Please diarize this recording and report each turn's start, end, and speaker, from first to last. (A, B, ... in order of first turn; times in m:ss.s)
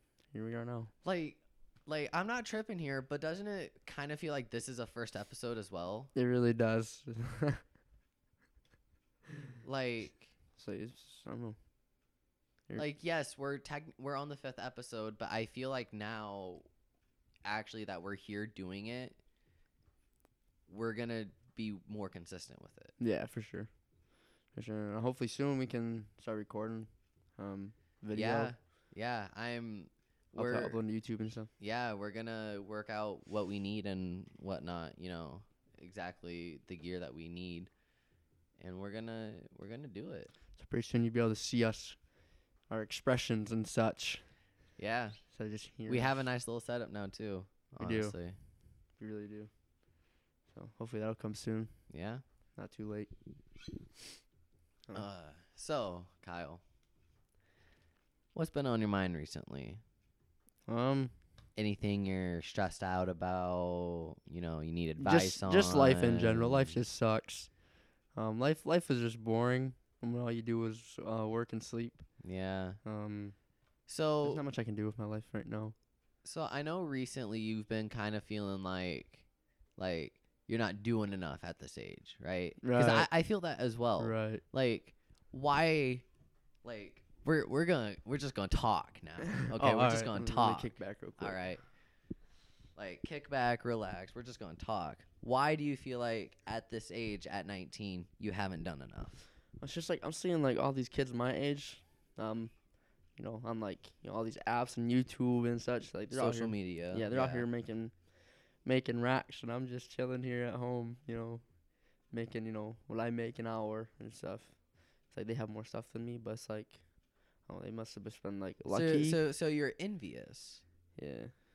0:00.3-0:00.9 A
0:01.0-0:06.1 B
0:06.2-0:07.6 A
0:09.6-0:10.3 B
0:10.6-0:11.6 A
0:12.8-0:16.7 B
0:17.4-0:19.2 B
0:20.7-0:22.9 B
0:23.0-0:23.7 A
0:24.5-0:28.5 A
0:28.1-0:30.8 B
0:30.4-0:31.5 A
0:31.6-0:37.7 B
0:38.6-0:40.3 B
0:40.6-0:42.0 A
0:42.7-0:44.3 A
0:44.8-0:45.2 B
0:45.3-0:46.1 A
0:45.9-0:48.4 B
0:47.8-0:48.2 A
0:49.0-0:49.5 A
0:50.5-0:51.7 A
0:51.9-0:52.2 B
0:52.6-0:53.1 A
0:54.9-0:56.6 B
0:58.3-0:59.8 B
1:00.7-1:01.1 A
1:01.6-1:06.8 B
1:05.0-1:07.5 A
1:08.1-1:12.0 A
1:12.2-1:12.8 B
1:12.8-1:13.4 A
1:13.9-1:14.4 B
1:14.2-1:15.8 A
1:16.2-1:19.2 B
1:19.8-1:26.0 B
1:22.6-1:23.1 A
1:24.0-1:24.4 A
1:26.6-1:31.6 B
1:29.4-1:31.4 A
1:32.8-1:39.2 B
1:39.6-1:42.5 A
1:43.2-1:48.0 A
1:46.1-1:47.5 B
1:48.6-1:51.4 A
1:52.1-1:56.8 A
1:57.5-1:59.2 A
1:58.7-2:00.6 B
2:01.0-2:01.3 A